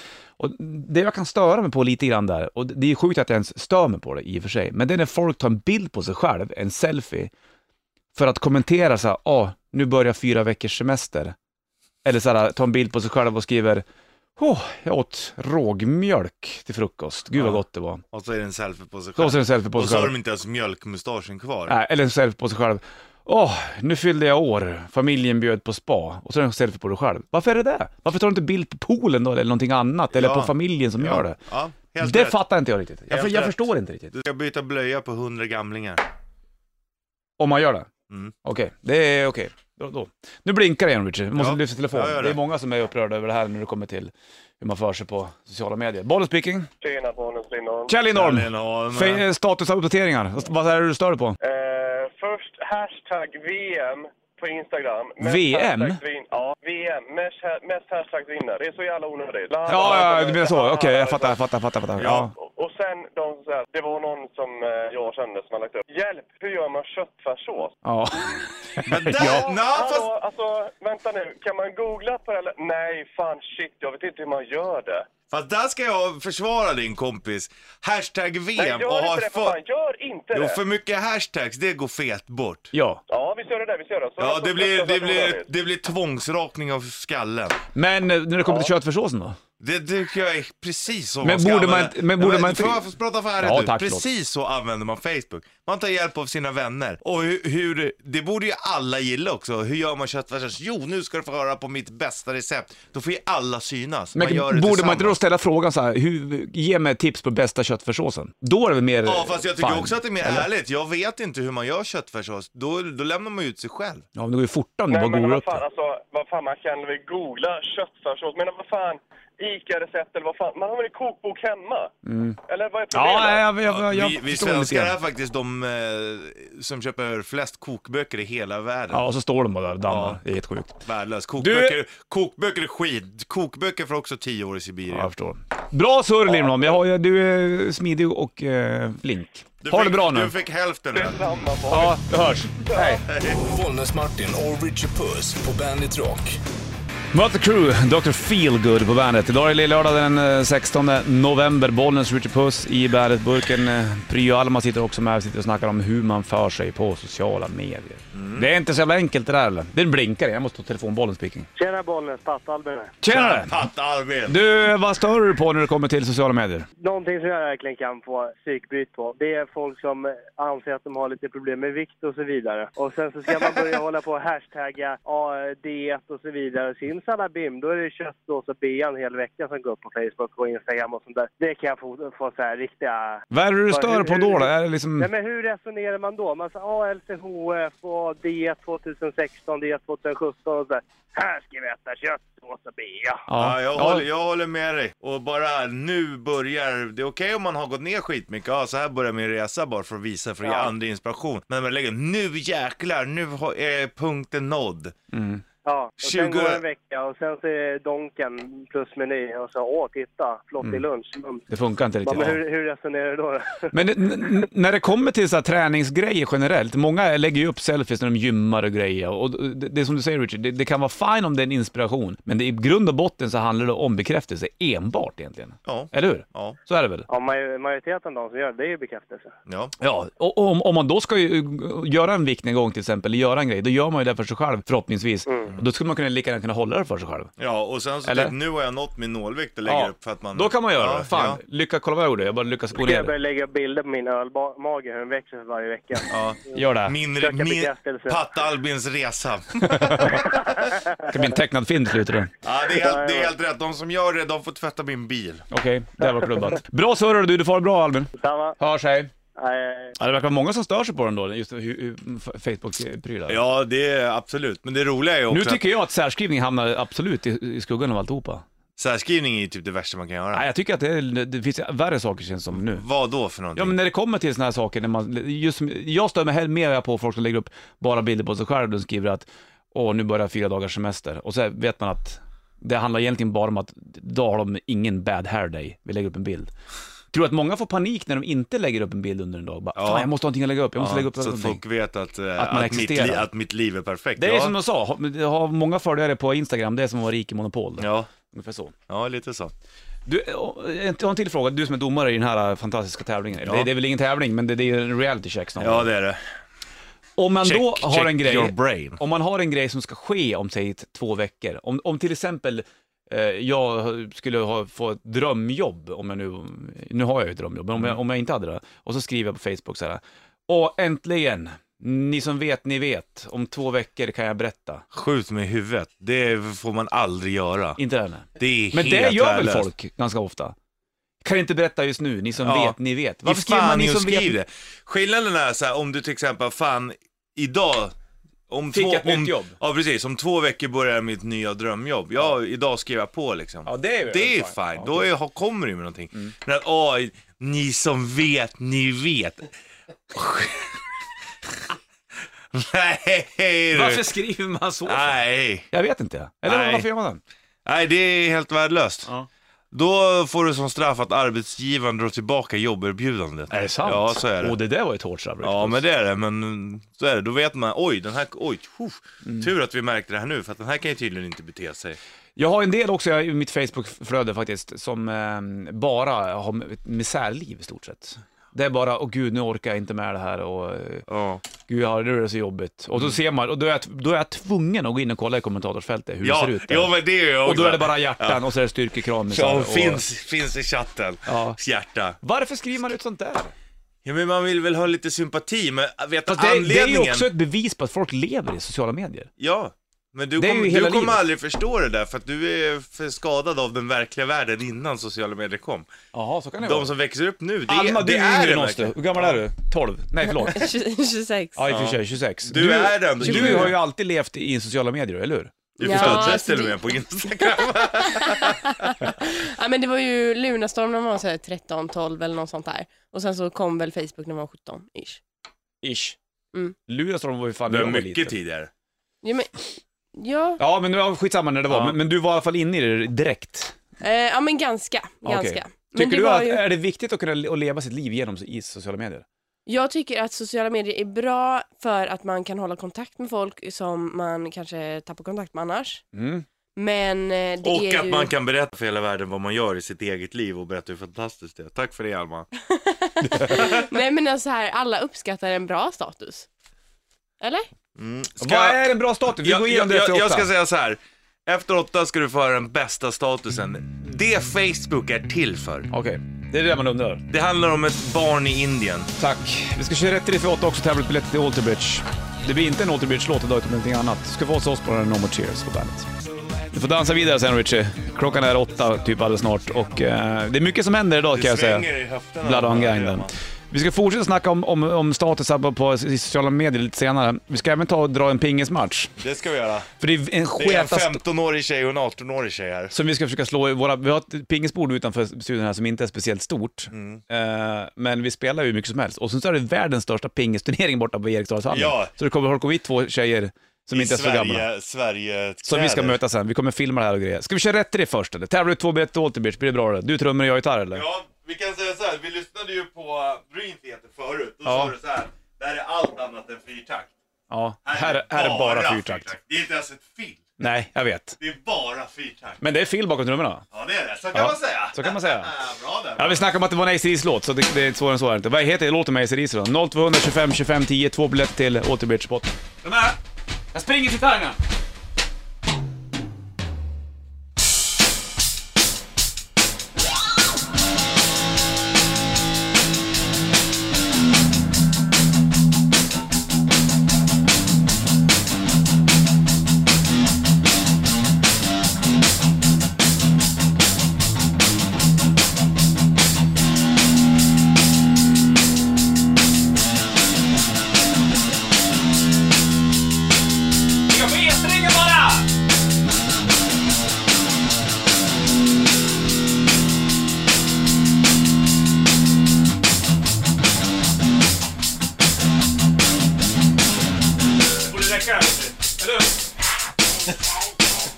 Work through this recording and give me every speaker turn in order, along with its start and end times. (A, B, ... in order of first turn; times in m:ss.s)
0:00.4-0:07.3 A
0:08.1-0:11.3 A
0:12.0-0:13.8 A
0:14.4-0:18.0 A
0:17.4-0:17.6 B
0:18.1-0:21.7 B
0:19.2-0:20.1 A
0:21.7-0:31.4 A
0:30.1-0:32.4 B
0:32.0-0:34.1 A
0:33.1-0:36.0 B
0:37.4-0:37.9 A
0:38.1-0:38.3 B
0:38.4-0:46.7 A
0:41.4-0:42.4 B
0:46.8-0:47.9 C
0:47.9-0:51.4 A
0:48.1-0:49.2 B
0:51.4-1:01.4 C
0:55.2-0:56.0 A
0:59.7-1:02.3 A
1:02.0-1:02.3 B
1:02.4-1:07.7 C
1:07.8-1:09.5 A
1:08.8-1:10.1 B
1:09.2-1:15.1 C
1:15.3-1:19.6 B
1:18.6-1:20.6 C
1:20.3-1:22.7 B
1:22.7-1:23.0 A
1:23.1-1:25.5 C
1:24.2-1:27.6 B
1:27.7-1:29.4 A
1:28.4-1:28.7 C
1:29.6-1:45.2 B
1:31.2-1:32.9 A
1:33.4-1:34.0 A
1:44.1-1:50.4 A
1:49.0-1:54.0 B
1:54.1-1:55.6 A
1:54.9-2:01.9 C
2:02.0-2:02.4 A
2:02.5-2:03.5 C
2:02.9-2:05.0 A
2:03.7-2:09.0 B
2:08.9-2:10.8 A
2:09.8-2:10.2 B
2:10.8-2:15.1 B
2:11.4-2:11.8 A
2:14.9-2:20.3 A
2:19.6-2:21.2 B
2:20.9-2:23.0 C
2:21.7-2:23.0 A
2:23.1-2:23.4 B
2:23.4-2:26.4 D
2:27.1-2:41.5 A
2:38.1-2:38.5 B
2:41.6-2:42.9 E
2:43.0-2:43.5 A
2:43.1-2:44.5 B
2:44.3-2:46.7 A
2:46.8-3:13.3 E
3:03.3-3:05.1 A
3:13.3-3:14.0 A
3:13.4-3:24.9 B
3:20.4-3:20.7 E
3:25.1-3:25.4 A
3:25.6-3:31.4 E
3:26.0-3:26.6 B
3:31.5-3:32.4 A
3:32.0-3:33.7 E
3:33.7-3:47.1 A
3:45.6-3:46.6 B
3:47.1-3:49.3 E
3:49.4-3:49.7 B
3:49.8-3:57.3 A
3:55.2-3:55.5 E
3:57.4-4:01.4 B
3:58.0-3:58.3 A
3:59.6-4:03.1 A
4:02.7-4:06.6 E
4:06.1-4:10.2 B
4:06.5-4:06.9 A
4:07.2-4:08.2 E
4:09.6-4:10.2 A
4:10.1-4:11.1 E
4:11.1-4:12.3 A
4:12.4-4:15.5 B
4:12.7-4:13.3 E
4:15.5-4:19.1 A
4:18.2-4:18.6 E
4:19.4-4:19.9 E
4:20.0-4:23.4 A
4:23.3-4:25.6 B
4:25.3-4:28.4 A
4:28.8-4:30.5 B
4:30.3-4:32.8 A
4:32.5-4:33.8 B
4:33.6-4:46.5 A
4:47.1-4:51.6 A
4:49.7-4:50.1 B
4:50.8-4:54.5 B
4:52.4-4:53.3 A
4:54.2-4:58.7 A
4:57.8-4:58.1 B
4:58.9-4:59.5 B
5:00.0-5:05.9 A
5:03.4-5:03.7 B
5:05.6-5:06.2 B
5:07.2-5:24.8 A
5:07.4-5:09.0 B
5:24.9-5:27.8 B
5:27.8-5:30.5 A
5:28.4-5:29.7 B
5:31.2-5:34.4 A
5:32.4-5:37.9 B
5:38.5-5:49.5 B
5:38.7-5:39.5 A
5:43.6-5:45.1 A
5:50.1-5:50.8 B
5:52.5-5:54.1 B
5:53.7-5:55.2 A
5:54.8-5:55.7 B
5:55.7-5:57.2 A
5:56.4-5:56.9 B
5:57.6-5:59.1 B
5:59.7-6:04.6 B
6:03.5-6:05.8 A
6:05.4-6:12.0 B
6:09.2-6:09.5 A
6:12.4-6:21.0 A
6:21.1-6:21.4 B
6:21.7-6:30.0 A
6:26.2-6:28.4 B
6:29.3-6:32.2 B
6:31.2-6:31.6 A
6:32.2-6:33.5 A
6:34.0-6:37.3 B
6:36.3-6:39.3 A
6:39.4-6:45.9 B
6:40.4-6:41.2 A
6:46.1-6:46.9 A
6:46.6-6:49.4 B
6:47.6-6:50.7 A
6:50.4-6:51.7 F
6:51.6-6:56.4 A
6:51.7-6:53.8 B
6:53.2-6:53.7 F
6:55.8-6:58.7 B
6:55.8-6:57.0 F
6:58.1-7:05.2 F
7:05.8-7:06.2 A
7:06.9-7:08.3 A
7:07.7-7:08.7 B
7:09.2-7:10.6 F
7:10.6-7:13.7 A
7:11.7-7:12.0 B
7:14.0-7:16.7 F
7:15.2-7:19.2 A
7:19.6-7:26.0 F
7:26.1-7:26.4 A
7:26.8-7:28.3 F
7:27.6-7:32.5 B
7:32.7-7:36.5 F
7:33.2-7:33.6 A
7:33.5-7:33.8 B
7:37.4-7:37.7 F
7:38.0-7:45.9 B
7:38.4-7:40.5 A
7:45.9-7:47.2 A
7:47.3-7:49.1 B
7:49.2-7:56.1 A
7:56.7-8:01.9 A
8:01.3-8:03.3 B
8:02.4-8:09.1 A
8:09.2-8:09.9 B
8:10.0-8:11.2 A
8:10.6-8:12.9 B
8:12.9-8:24.7 A
8:16.9-8:17.2 B
8:21.7-8:22.1 B
8:23.9-8:26.2 B
8:25.6-8:31.0 A
8:30.9-8:37.1 B
8:34.6-8:34.9 A
8:37.5-8:39.3 A
8:37.8-8:40.7 B
8:40.6-8:41.4 A
8:41.4-8:42.6 B
8:42.6-8:43.6 A
8:43.7-8:46.5 B
8:44.3-8:45.5 A
8:46.2-8:53.2 A
8:53.7-8:54.6 A
9:24.1-9:25.5 A
9:37.9-9:39.4 A